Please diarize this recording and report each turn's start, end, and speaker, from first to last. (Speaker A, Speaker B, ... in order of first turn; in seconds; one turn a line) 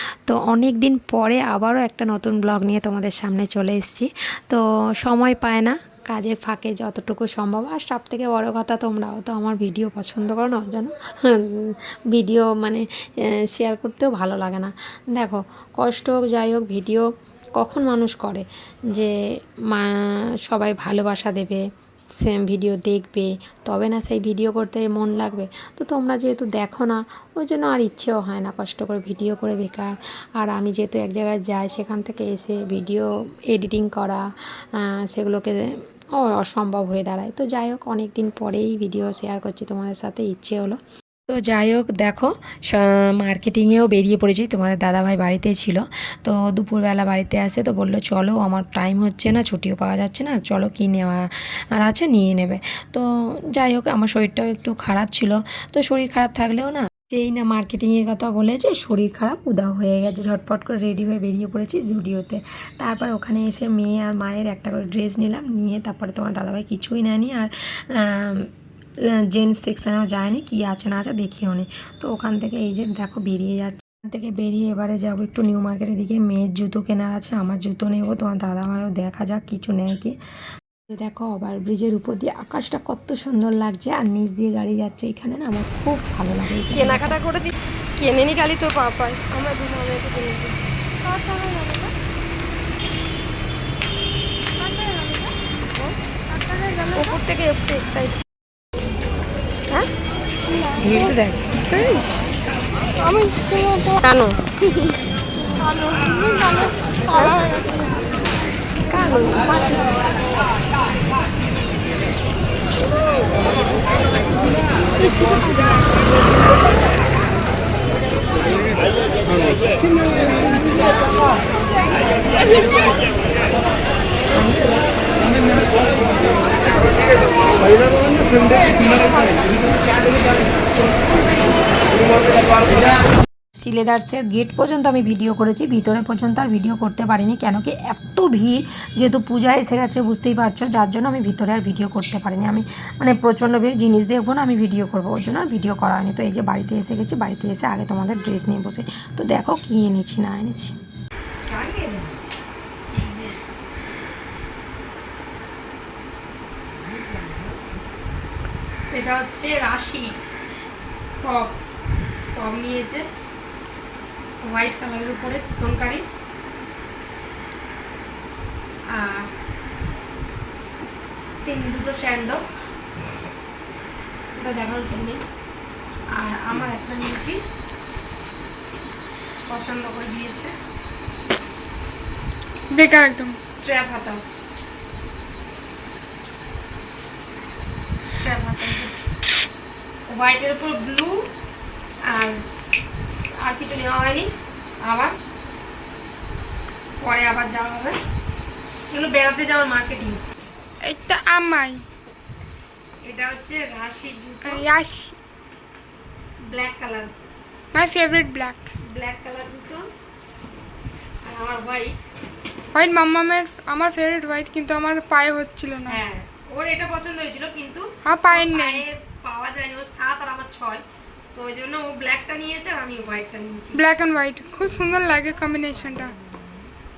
Speaker A: 0.3-19.1
Speaker A: 19.7-21.6
Speaker A: 22.2-68.5
Speaker A: 69.3-80.2
Speaker A: 80.9-87.1
Speaker B: 86.7-90.6
Speaker C: 91.1-91.7
Speaker C: 94.7-95.3
Speaker C: 96.3-97.1
Speaker B: 96.9-98.2
Speaker A: 100.8-102.3
Speaker B: 103.5-104.5
Speaker B: 107.1-107.8
Speaker B: 108.9-110.0
Speaker A: 124.4-124.7
Speaker A: 133.6-150.8
Speaker B: 151.5-152.1
Speaker B: 152.9-153.3
Speaker B: 158.9-160.2
Speaker B: 161.2-161.6
Speaker B: 162.3-163.1
Speaker B: 164.4-166.0
Speaker B: 168.9-169.3
Speaker B: 171.4-172.4
Speaker B: 174.4-175.2
Speaker B: 176.1-177.4
Speaker B: 179.5-180.5
Speaker C: 182.7-183.4
Speaker B: 183.5-184.2
Speaker B: 188.1-188.9
Speaker B: 190.1-191.3
Speaker B: 192.1-192.4
Speaker B: 193.3-194.3
Speaker B: 194.8-195.2
Speaker B: 197.0-198.0
Speaker B: 198.9-200.2
Speaker C: 200.8-201.8
Speaker B: 203.1-204.7
Speaker C: 204.4-205.2
Speaker B: 206.5-207.1
Speaker C: 207.7-208.7
Speaker B: 208.8-209.9
Speaker B: 211.2-212.0
Speaker C: 212.7-216.0
Speaker B: 215.9-223.8
Speaker C: 218.1-218.8
Speaker C: 223.8-226.1